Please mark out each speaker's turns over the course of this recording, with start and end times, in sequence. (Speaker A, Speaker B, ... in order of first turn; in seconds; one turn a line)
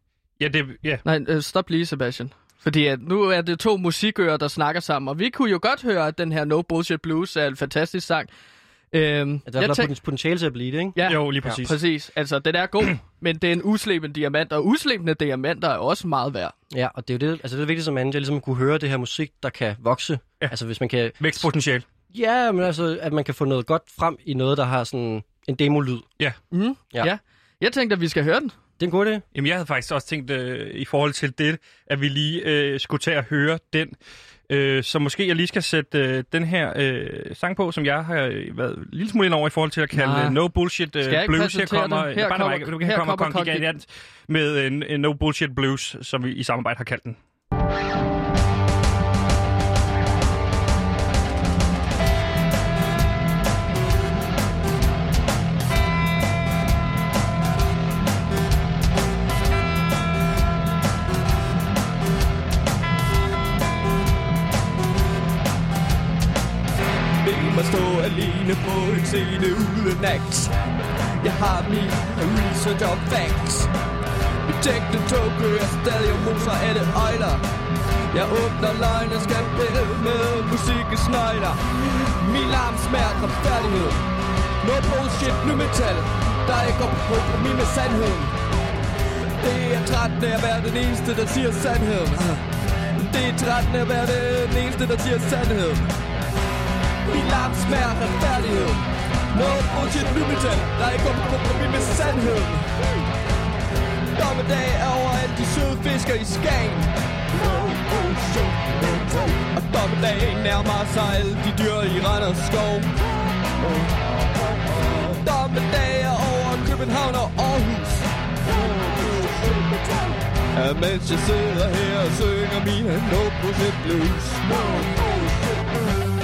Speaker A: 0.4-1.0
Speaker B: 1.1-8.3
Speaker B: 8.9-9.9
Speaker C: 9.5-11.6
Speaker B: 10.9-16.5
Speaker A: 11.1-11.8
Speaker C: 16.7-21.4
Speaker A: 21.2-21.9
Speaker C: 22.1-26.1
Speaker B: 26.5-28.5
Speaker C: 28.8-29.2
Speaker A: 29.3-34.0
Speaker A: 34.5-47.2
Speaker B: 39.9-40.4
Speaker B: 41.0-43.6
Speaker D: 67.2-70.5
Speaker D: 71.2-73.7
Speaker D: 74.5-77.4
Speaker D: 78.1-84.0
Speaker D: 84.6-88.3
Speaker D: 89.4-92.4
Speaker D: 93.0-95.9
Speaker D: 97.1-102.7
Speaker D: 104.2-113.0
Speaker D: 113.6-113.9
Speaker D: 114.7-125.6